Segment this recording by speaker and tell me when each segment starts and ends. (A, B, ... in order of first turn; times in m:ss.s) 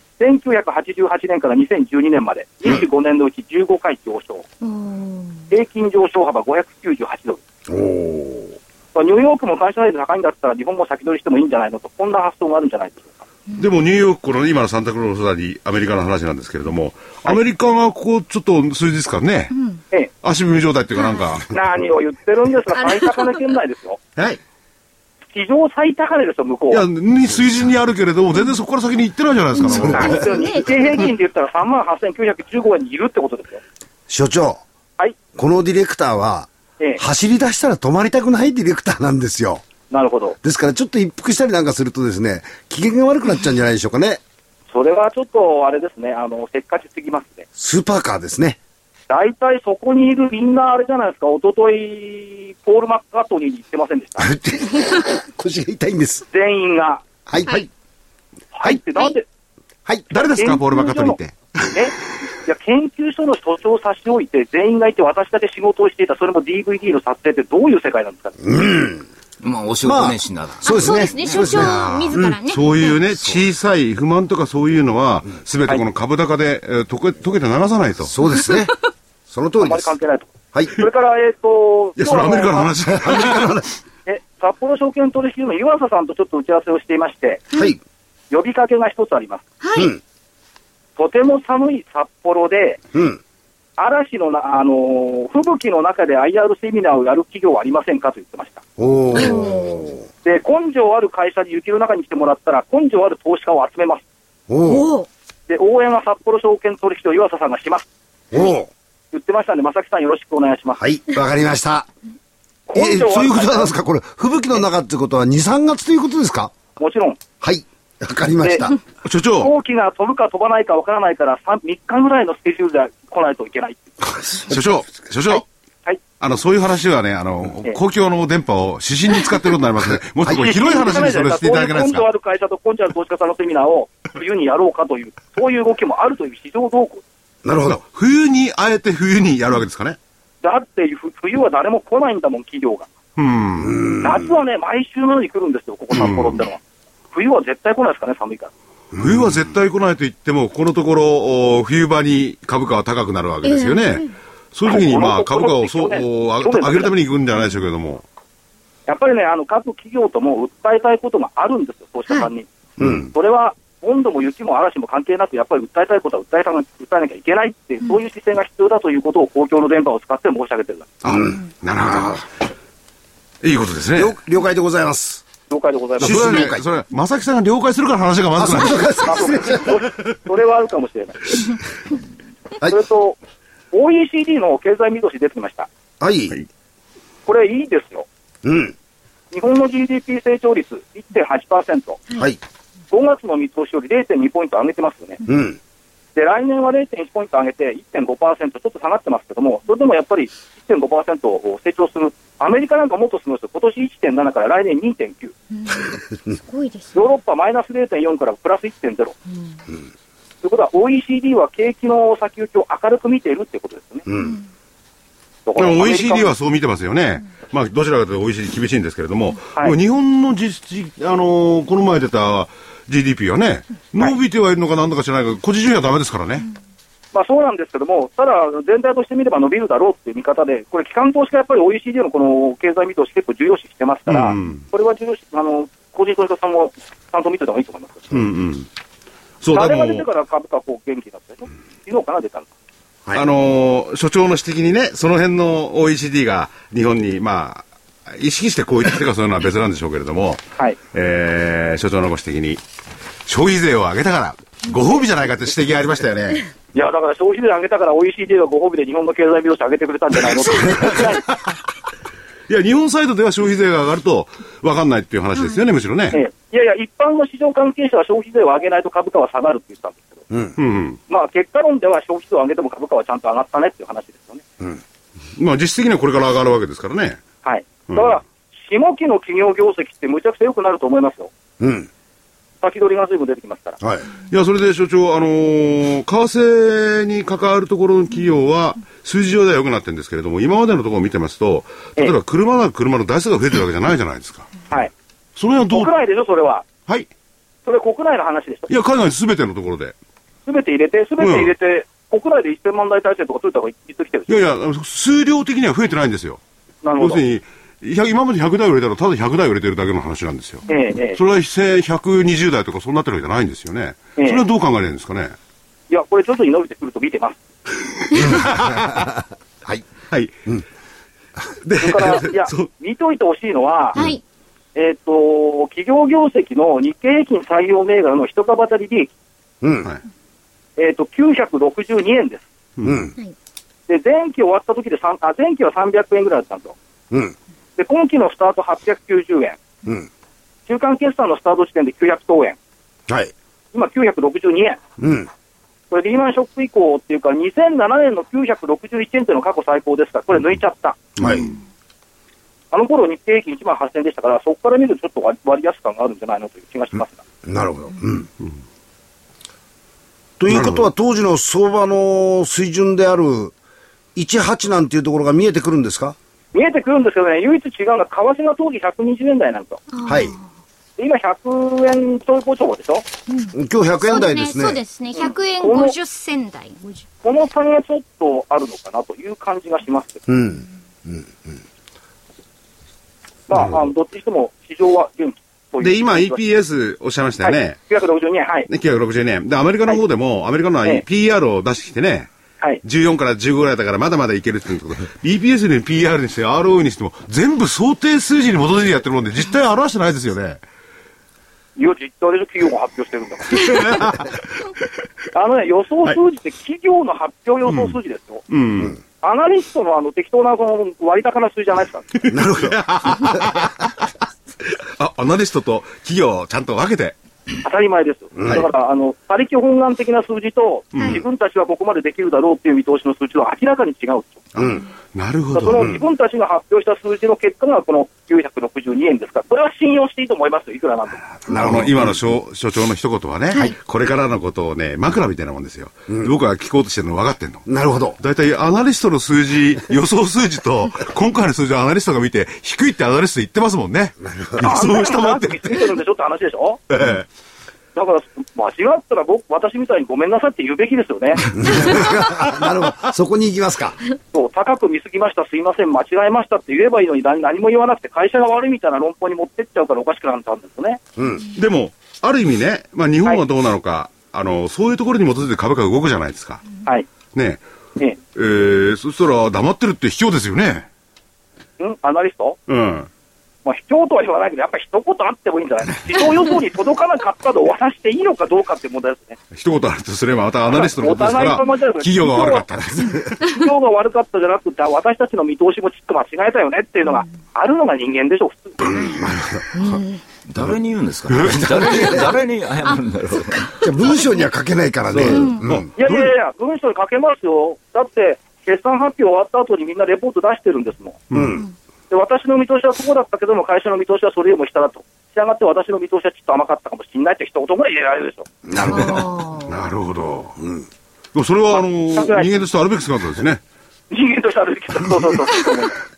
0:00.2-0:04.5 A
0:04.6-0:05.4 B
0:05.5-0:07.4 A
0:07.7-0:08.6 C
0:08.9-0:13.2 A
0:13.6-0:19.5 D
0:19.5-0:19.8 B
0:20.2-0:21.5 D
0:20.9-0:21.3 B
0:21.5-0:24.0 A
0:22.7-0:23.4 B
0:25.3-0:26.8 A
0:26.7-0:30.2 D
0:29.5-0:30.7 B
0:29.7-0:30.2 C
0:29.9-0:33.6 A
0:34.1-0:34.6 C
0:35.3-0:39.6 C
0:39.9-0:40.4 A
0:40.4-0:44.2 C
0:44.7-0:47.4 A
0:47.6-0:48.6 C
0:49.1-0:54.3 A
0:54.2-0:56.2 C
0:56.3-0:57.0 A
0:57.3-0:57.7 C
0:58.5-0:59.2 A
1:00.1-1:01.2 A
1:00.1-1:01.3 D
1:01.7-1:08.4 A
1:08.4-1:09.0 C
1:09.4-1:11.5 E
1:09.8-1:12.4 C
1:10.6-1:13.0 B
1:11.4-1:18.1 D
1:18.0-1:18.8 C
1:19.3-1:19.9 C
1:19.6-1:22.7 A
1:20.5-1:20.8 C
1:22.0-1:23.6 D
1:22.8-1:23.7 C
1:24.0-1:27.4 A
1:27.5-1:27.8 C
1:28.3-1:29.4 A
1:29.6-1:29.9 B
1:29.8-1:30.0 C
1:31.0-1:32.8 A
1:32.9-1:33.2 C
1:33.8-1:38.6 A
1:38.8-1:40.1 C
1:39.1-1:39.7 B
1:40.2-1:44.0 A
1:44.5-1:44.9 C
1:44.6-1:45.1 B
1:45.5-1:47.8 A
1:48.3-1:48.7 C
1:49.1-1:50.8 A
1:50.8-1:51.9 C
1:52.7-1:53.7 A
1:52.7-1:56.5 C
1:56.8-1:57.2 A
1:57.4-1:58.8 C
1:58.4-1:58.7 A
1:59.0-1:59.5 D
1:59.4-2:03.8 A
2:04.2-2:04.6 C
2:04.5-2:05.4 D
2:05.3-2:06.0 A
2:06.2-2:12.0 D
2:10.2-2:17.0 A
2:17.4-2:17.8 C
2:17.6-2:20.0 D
2:20.4-2:22.9 A
2:23.2-2:23.9 D
2:23.6-2:24.2 C
2:24.0-2:26.6 A
2:25.9-2:26.4 D
2:27.1-2:28.5 A
2:29.0-2:38.0 D
2:33.4-2:34.1 B
2:34.6-2:36.9 A
2:38.9-2:42.5 A
2:42.8-2:43.1 C
2:43.0-2:50.9 A
2:51.0-2:52.2 D
2:51.1-2:52.2 C
2:53.4-2:54.2 D
2:53.9-2:55.2 C
2:55.5-2:56.5 A
2:56.0-2:56.6 C
2:56.0-2:59.2 D
2:58.4-2:59.8 C
2:59.0-3:01.4 A
3:02.6-3:03.2 A
3:03.7-3:05.7 A
3:06.0-3:06.4 C
3:07.2-3:08.0 A
3:08.4-3:08.7 C
3:09.3-3:12.0 A
3:12.1-3:12.4 C
3:12.9-3:15.2 A
3:15.2-3:15.6 C
3:16.1-3:25.3 A
3:25.6-3:25.9 B
3:26.5-3:27.0 B
3:26.9-3:29.2 A
3:30.4-3:34.0 A
3:34.1-3:34.4 C
3:35.4-3:36.3 A
3:35.6-3:46.4 D
3:47.1-3:58.1 A
3:54.1-3:54.6 D
3:58.1-3:58.7 D
3:59.4-4:00.0 D
3:59.5-4:02.5 A
4:03.1-4:12.6 D
4:13.3-4:16.4 D
4:16.7-4:21.2 A
4:22.5-4:26.2 D
4:26.1-4:30.2 A
4:30.3-4:30.6 C
4:30.6-4:31.0 D
4:31.1-4:34.4 A
4:35.4-4:37.2 D
4:37.4-4:41.3 A
4:41.6-4:41.9 C
4:42.6-4:43.8 A
4:43.8-4:44.1 C
4:44.3-4:54.5 D
4:55.4-4:55.9 D
4:55.7-4:56.6 A
4:57.6-4:58.7 A
4:58.7-4:59.9 D
5:00.4-5:04.5 A
5:01.2-5:01.5 D
5:04.3-5:06.4 D
5:06.8-5:07.2 A
5:07.0-5:15.3 D
5:10.7-5:11.2 A
5:14.2-5:14.4 A
5:15.9-5:17.4 A
5:18.1-5:19.1 D
5:18.2-5:19.8 C
5:21.6-5:22.7 D
5:21.8-5:24.0 A
5:24.0-5:24.2 B
5:24.7-5:29.1 A
5:29.6-5:29.9 C
5:30.8-5:32.4 A
5:32.8-5:33.1 D
5:32.8-5:33.1 C
5:33.9-5:36.7 A
5:37.8-5:39.6 A
5:40.7-5:42.6 A
5:43.7-5:44.8 A
5:45.0-5:45.3 C
5:45.9-5:51.0 A
5:51.2-5:51.5 D
5:51.2-5:51.5 C
5:52.7-5:57.2 A
5:57.4-5:58.3 C
6:00.4-6:03.5 C
6:00.5-6:00.9 D
6:04.2-6:06.2 C
6:06.5-6:09.8 A
6:09.9-6:10.4 B
6:10.0-6:10.3 C
6:11.0-6:13.0 A
6:13.5-6:14.8 C
6:14.0-6:17.0 B
6:15.1-6:16.0 A
6:17.2-6:20.2 A
6:20.3-6:21.3 C
6:23.5-6:26.4 A
6:25.8-6:27.8 D
6:27.4-6:28.7 A
6:28.7-6:32.3 D
6:32.8-6:40.6 D
6:41.8-6:44.0 A
6:43.6-6:44.4 D
6:45.3-6:48.4 A
6:47.7-6:47.9 D
6:48.5-6:49.0 D
6:49.2-6:52.1 A
6:52.2-6:53.9 D
6:52.3-6:53.6 C
6:55.0-6:57.2 D
6:57.6-7:04.4 A
6:58.4-6:58.7 C
7:00.9-7:01.2 D
7:04.5-7:05.9 D
7:04.6-7:04.8 C
7:05.5-7:11.6 A
7:05.7-7:06.0 C
7:11.4-7:12.1 C
7:11.5-7:17.6 D
7:17.6-7:18.2 C
7:18.2-7:25.9 D
7:24.2-7:24.7 C
7:24.6-7:26.8 A
7:26.9-7:27.2 D
7:27.9-7:31.5 A
7:31.5-7:34.0 C
7:34.3-7:41.0 A
7:41.2-7:41.5 C
7:41.5-7:46.6 D
7:47.3-7:47.6 D
7:48.3-7:50.9 D
7:51.8-7:52.6 A
7:52.7-7:53.1 D
7:53.6-7:59.4 A
7:59.5-8:03.4 D
8:00.7-8:02.7 A
8:03.4-8:09.1 A
8:09.0-8:09.8 C
8:09.7-8:10.2 B
8:10.5-8:13.8 E
8:11.3-8:12.2 D
8:11.8-8:12.0 C
8:12.9-8:14.3 B
8:13.8-8:15.9 C
8:15.1-8:15.5 E
8:15.3-8:15.6 B
8:15.6-8:16.3 D
8:16.0-8:21.2 A
8:21.3-8:21.6 D
8:21.3-8:21.6 C
8:22.1-8:28.5 A
8:28.7-8:29.4 C
8:28.8-8:29.7 B
8:29.7-8:30.6 D
8:30.6-8:30.8 C
8:31.3-8:33.6 D
8:31.7-8:32.6 A
8:34.1-8:36.0 A